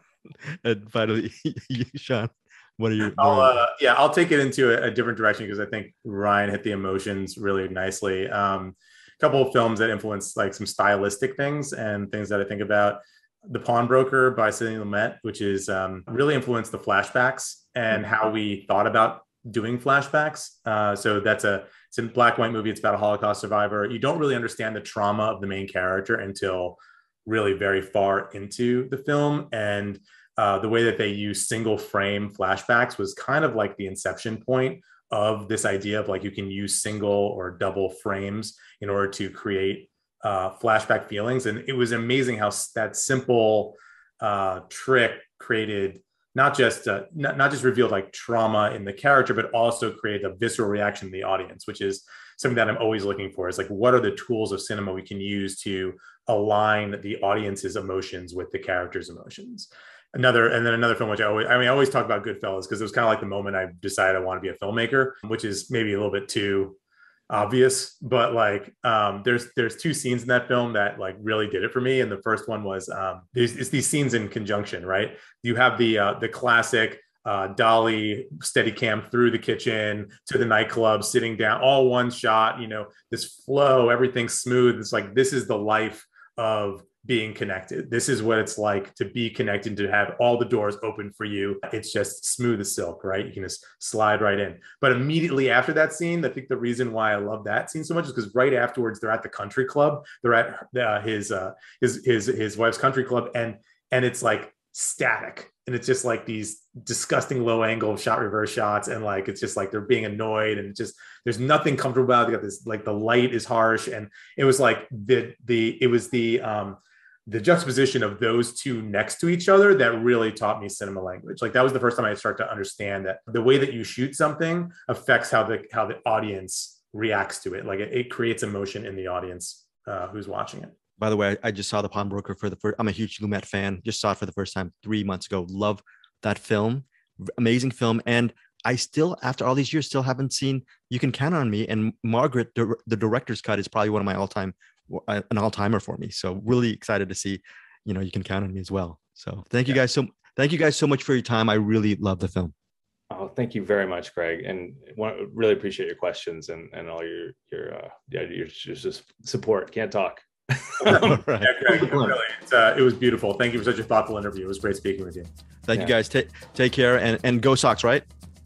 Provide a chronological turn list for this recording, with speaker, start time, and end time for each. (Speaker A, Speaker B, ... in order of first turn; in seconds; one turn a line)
Speaker A: 0.5-3.6
Speaker B: 3.1-66.8
Speaker B: 67.3-130.7
Speaker A: 131.0-152.5
Speaker C: 153.1-161.2
Speaker A: 160.9-162.2
Speaker B: 160.9-165.3
Speaker A: 165.7-168.1